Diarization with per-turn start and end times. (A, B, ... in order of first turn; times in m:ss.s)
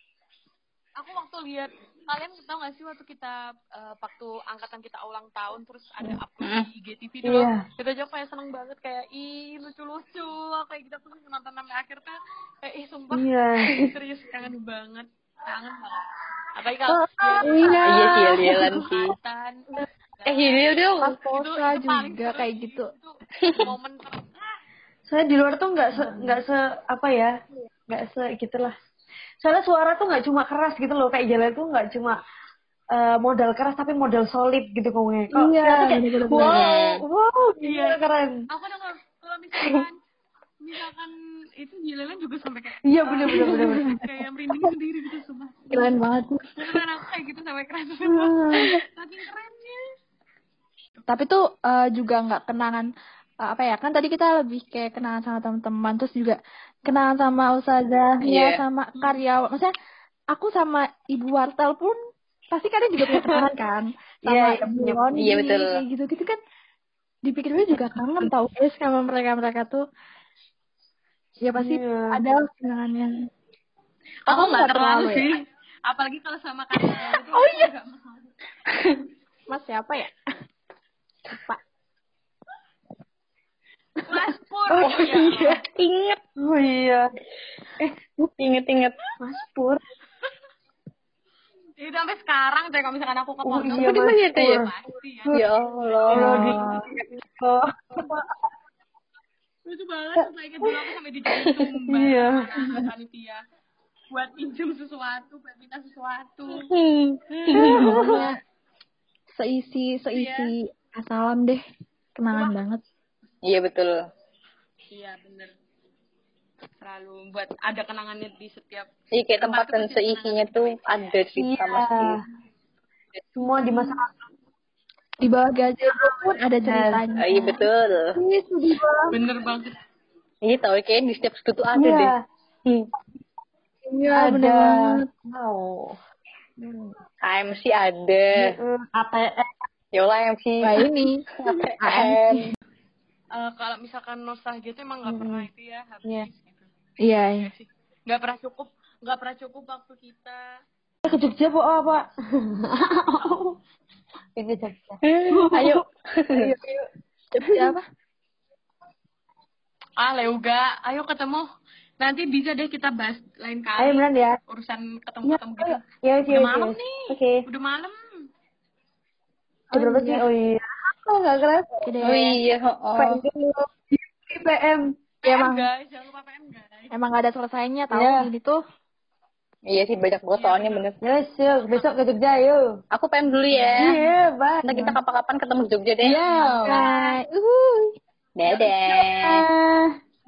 0:01.0-0:24.6 A
0:06.4-0:06.7 B
0:07.2-0:07.6 C
0:13.1-0:13.8 C
0:16.9-0:18.7 C
0:17.5-0:17.8 D
0:17.8-0:19.1 B
0:20.3-0:21.1 B
0:21.0-0:22.9 D
0:23.5-0:23.7 B
0:25.1-0:27.3 C
0:27.9-0:28.7 C
0:29.4-0:32.2 C
0:32.9-0:38.4 C
0:35.3-0:36.6 D
0:36.4-0:37.0 B
0:37.6-0:39.9 A
0:40.6-0:46.0 A
0:42.9-0:43.8 C
0:43.3-0:44.1 D
0:45.7-0:46.6 D
0:46.6-0:49.8 A
0:48.0-0:48.7 C
0:51.1-0:52.9 D
0:53.4-0:59.7 D
0:58.2-0:58.6 B
1:00.3-1:02.0 D
1:02.5-1:06.4 D
1:03.1-1:03.5 C
1:04.2-1:05.1 C
1:05.2-1:05.8 B
1:07.2-1:09.8 D
1:11.4-1:13.1 D
1:11.6-1:12.2 C
1:14.3-1:18.3 A
1:14.3-1:15.3 D
1:18.7-1:19.0 B
1:19.5-1:20.1 D
1:21.3-1:21.6 D
1:24.1-1:25.6 A
1:24.7-1:25.0 C
1:24.8-1:26.2 B
1:26.4-1:27.1 C
1:27.8-1:28.3 C
1:28.4-1:28.9 B
1:29.2-1:29.8 C
1:31.8-1:36.8 A
1:33.4-1:34.7 C
1:33.7-1:34.6 B
1:35.3-1:36.6 B
1:36.1-1:38.2 C
1:39.6-1:43.4 A
1:41.9-1:42.5 C
1:44.1-1:46.7 A
1:47.4-1:48.1 B
1:47.5-1:48.3 C
1:47.5-1:48.3 D
1:49.4-1:51.6 D
1:50.1-1:50.5 A
1:52.2-1:52.8 D
1:53.4-1:54.0 B
1:54.9-1:55.5 A
1:56.8-2:01.1 A
1:59.1-2:02.2 B
2:01.4-2:02.2 C
2:03.4-2:04.1 C
2:05.2-2:07.6 D
2:06.0-2:07.0 C
2:07.2-2:08.2 B
2:08.1-2:09.1 C
2:09.1-2:09.8 A
2:10.4-2:12.1 B
2:11.7-2:12.2 C
2:13.9-2:15.0 D
2:14.1-2:15.9 C
2:16.6-2:17.0 C
2:17.2-2:18.5 B
2:18.4-2:19.6 C
2:19.9-2:20.8 B
2:20.6-2:21.2 D
2:21.4-2:22.5 B
2:21.8-2:22.5 D
2:23.3-2:26.7 A
2:25.0-2:25.5 C
2:27.0-2:27.5 D
2:27.5-2:30.4 A
2:31.0-2:33.6 C
2:34.4-2:36.8 C
2:35.0-2:36.5 B
2:37.4-2:37.8 D
2:40.0-2:41.4 A
2:42.0-2:48.3 A
2:43.8-2:44.4 C
2:45.2-2:47.4 C
2:49.7-2:52.2 C
2:49.7-2:50.2 D
2:51.8-2:52.4 D
2:52.0-2:53.2 B
2:52.9-2:54.9 C
2:55.2-2:56.9 A
2:55.2-2:55.6 D
2:56.9-2:58.6 D
2:57.9-2:58.3 C
2:59.7-3:00.9 B
3:00.3-3:00.9 A
3:01.0-3:02.6 C
3:01.5-3:01.9 A
3:02.9-3:04.0 B
3:03.5-3:04.0 A
3:03.8-3:04.9 C
3:04.6-3:06.4 B
3:06.0-3:06.8 C
3:06.2-3:07.1 A
3:06.6-3:07.9 D
3:08.4-3:09.4 B
3:08.6-3:09.9 C